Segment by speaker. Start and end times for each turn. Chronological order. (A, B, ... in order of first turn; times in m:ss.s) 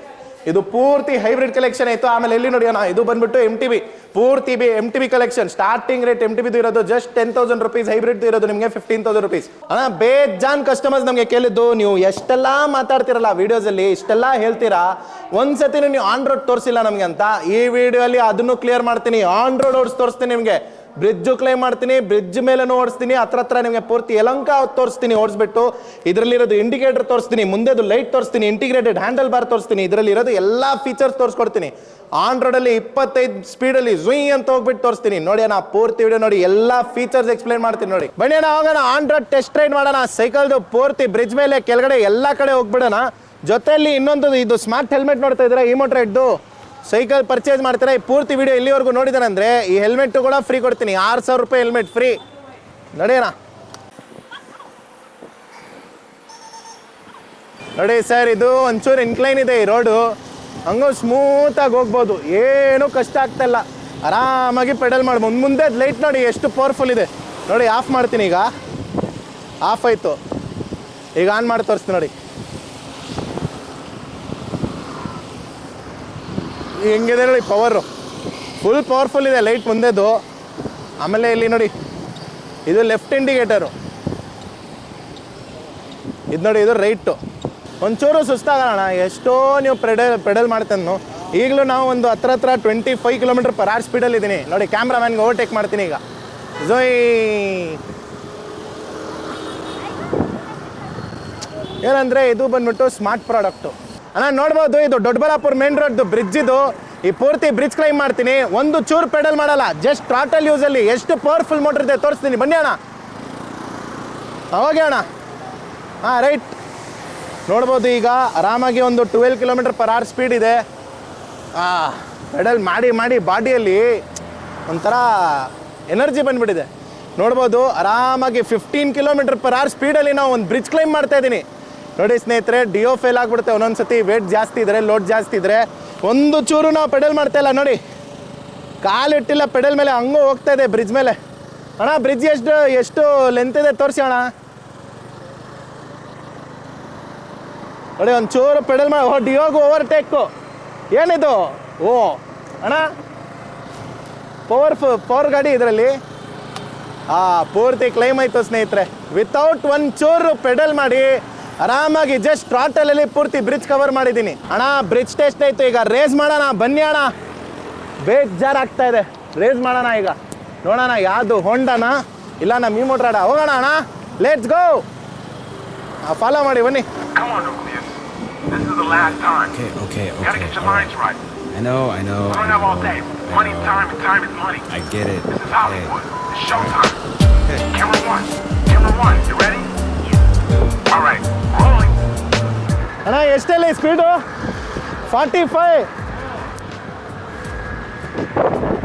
0:00.4-0:46.4 A
0:46.9-0:52.2 A
0:53.0-0:53.3 A
0:57.8-1:00.0 A
1:00.7-1:08.5 A
1:09.6-1:10.2 A
1:11.2-1:12.1 A
1:16.8-1:17.8 A
1:18.6-1:20.2 A
1:21.0-1:21.7 A
1:22.7-1:23.7 A
1:26.3-1:27.2 A
1:27.8-1:36.0 A
1:36.6-1:37.8 A
1:41.8-1:52.8 A
1:54.5-1:55.0 A
1:56.0-1:56.6 A
1:57.5-2:00.6 A
2:01.6-2:04.0 A
2:04.7-2:11.4 A
2:12.0-2:17.8 A
2:18.8-2:21.2 A
2:21.8-2:24.3 A
2:28.0-2:30.3 A
2:30.9-2:32.9 A
2:34.5-2:35.9 A
2:37.1-2:47.1 A
2:48.0-2:54.8 A
2:56.0-2:56.9 A
2:57.1-2:59.5 B
2:59.5-3:00.9 C
3:00.2-3:01.2 B
3:01.5-3:03.8 C
3:02.3-3:04.7 B
3:04.7-3:05.9 C
3:05.3-3:07.0 B
3:07.7-3:09.7 B
3:10.9-3:12.0 B
3:13.0-3:14.2 A
3:15.1-3:15.9 A